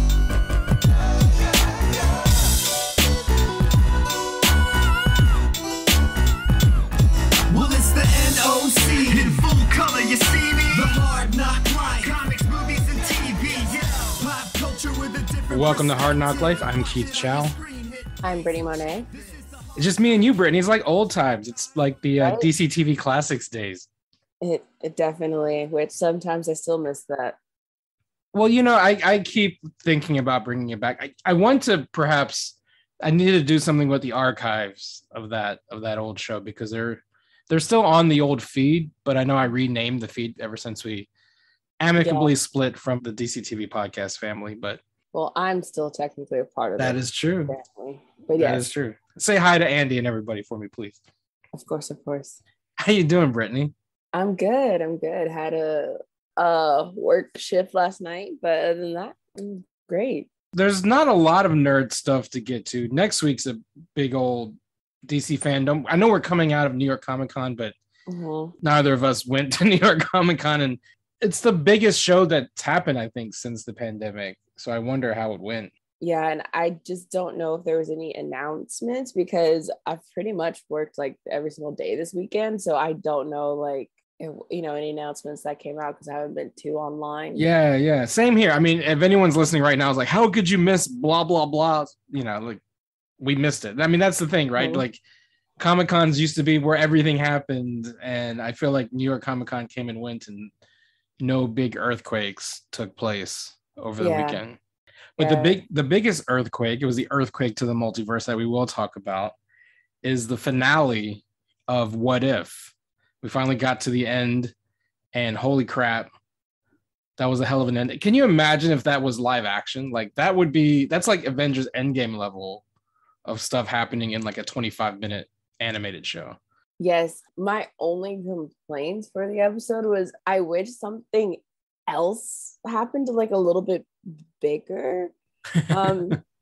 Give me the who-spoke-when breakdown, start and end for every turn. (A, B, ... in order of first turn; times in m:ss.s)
0:07.5-0:20.0 A
0:15.5-0:17.6 B
0:18.2-0:19.1 C
0:19.8-0:23.9 B
0:22.2-0:22.5 C
0:24.4-0:27.4 C
0:28.3-0:41.1 B
0:41.8-0:44.8 B
0:42.0-0:42.3 C
0:45.1-0:48.7 C
0:46.8-0:47.6 B
0:48.4-0:51.0 B
0:51.6-0:52.4 C
0:52.8-0:53.7 B
0:54.1-1:00.3 C
1:00.5-1:07.8 B
1:08.1-1:08.6 C
1:08.6-1:15.7 B
1:16.0-1:27.4 C
1:27.4-1:32.6 B
1:33.2-1:35.0 B
1:34.6-1:34.8 C
1:35.6-1:40.5 B
1:41.2-1:44.6 B
1:44.0-1:44.4 C
1:45.2-1:49.4 B
1:45.2-1:45.6 C
1:50.0-1:54.5 B
1:55.1-1:56.1 B
1:57.2-2:02.6 B
2:03.2-2:06.4 B
2:06.8-2:15.1 C
2:15.6-2:16.2 B
2:15.7-2:16.2 C